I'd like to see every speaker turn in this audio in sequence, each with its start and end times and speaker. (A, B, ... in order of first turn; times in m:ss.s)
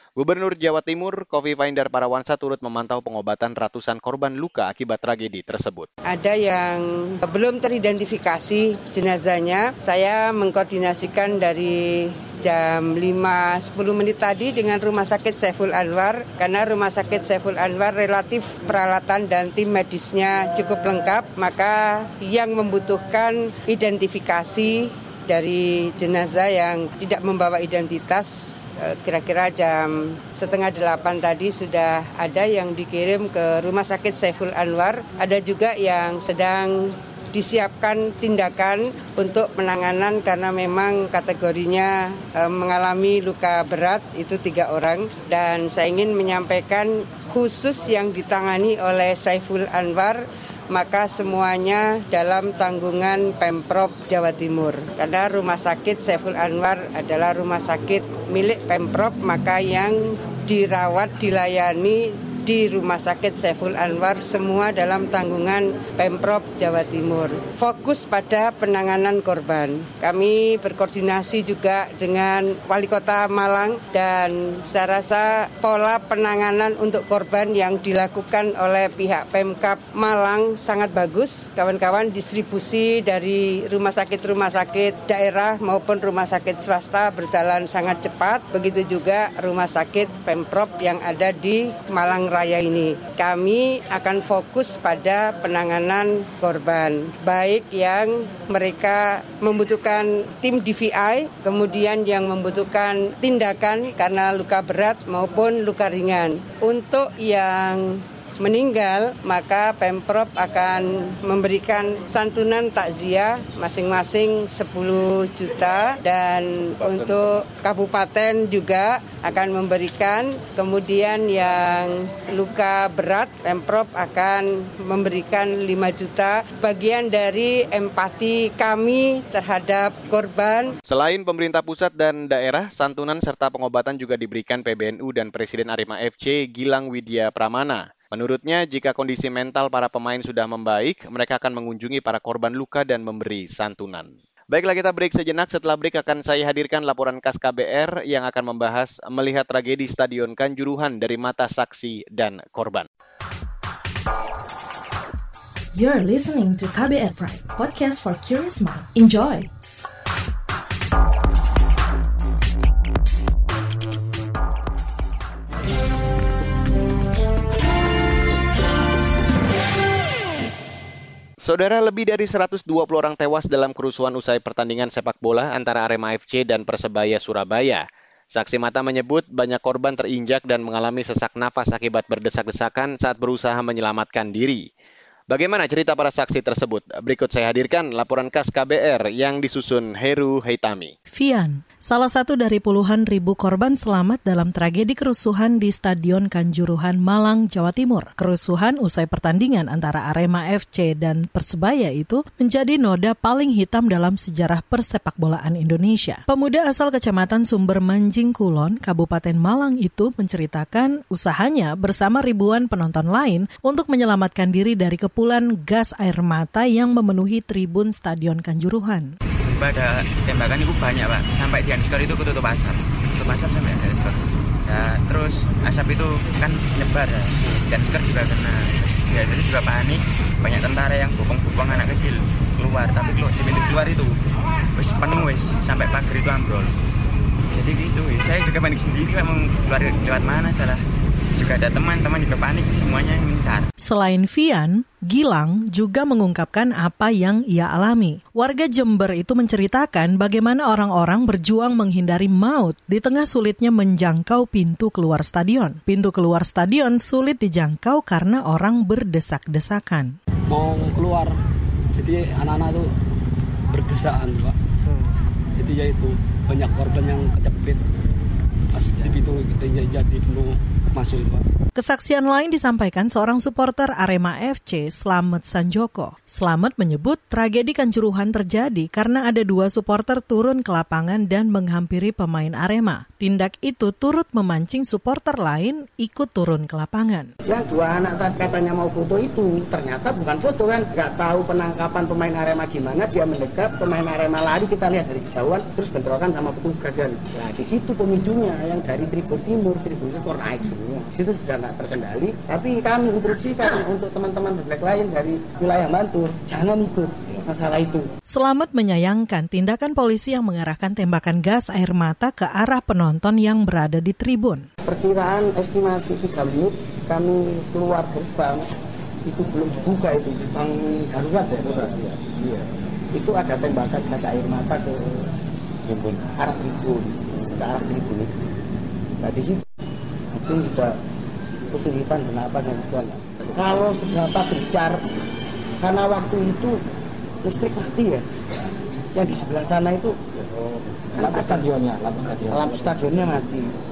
0:00.2-0:05.9 A
0:06.1-2:10.7 B
2:10.9-2:32.9 A
2:35.7-2:39.5 C
2:51.4-3:04.7 A
3:05.3-3:10.9 A
3:11.1-3:39.1 D
3:39.4-3:54.2 E
3:54.8-3:56.7 E
3:57.5-4:00.8 E
4:01.4-4:03.7 E
4:03.8-4:20.2 D
4:20.5-4:21.4 F
4:21.9-4:22.9 F
4:23.7-4:24.6 F
4:25.5-4:27.8 F
4:28.7-4:31.4 F
4:31.8-4:47.3 D
4:47.5-5:08.1 G
5:08.3-5:14.6 D
5:14.8-5:18.7 G
5:19.2-5:22.6 G
5:23.1-5:25.0 G
5:25.9-5:28.3 G
5:29.2-5:29.6 G
5:30.3-5:31.0 G
5:31.7-5:35.0 G
5:35.8-5:36.8 G
5:37.4-5:38.2 G
5:39.1-5:40.2 G
5:41.1-5:43.7 G
5:41.3-5:42.6 F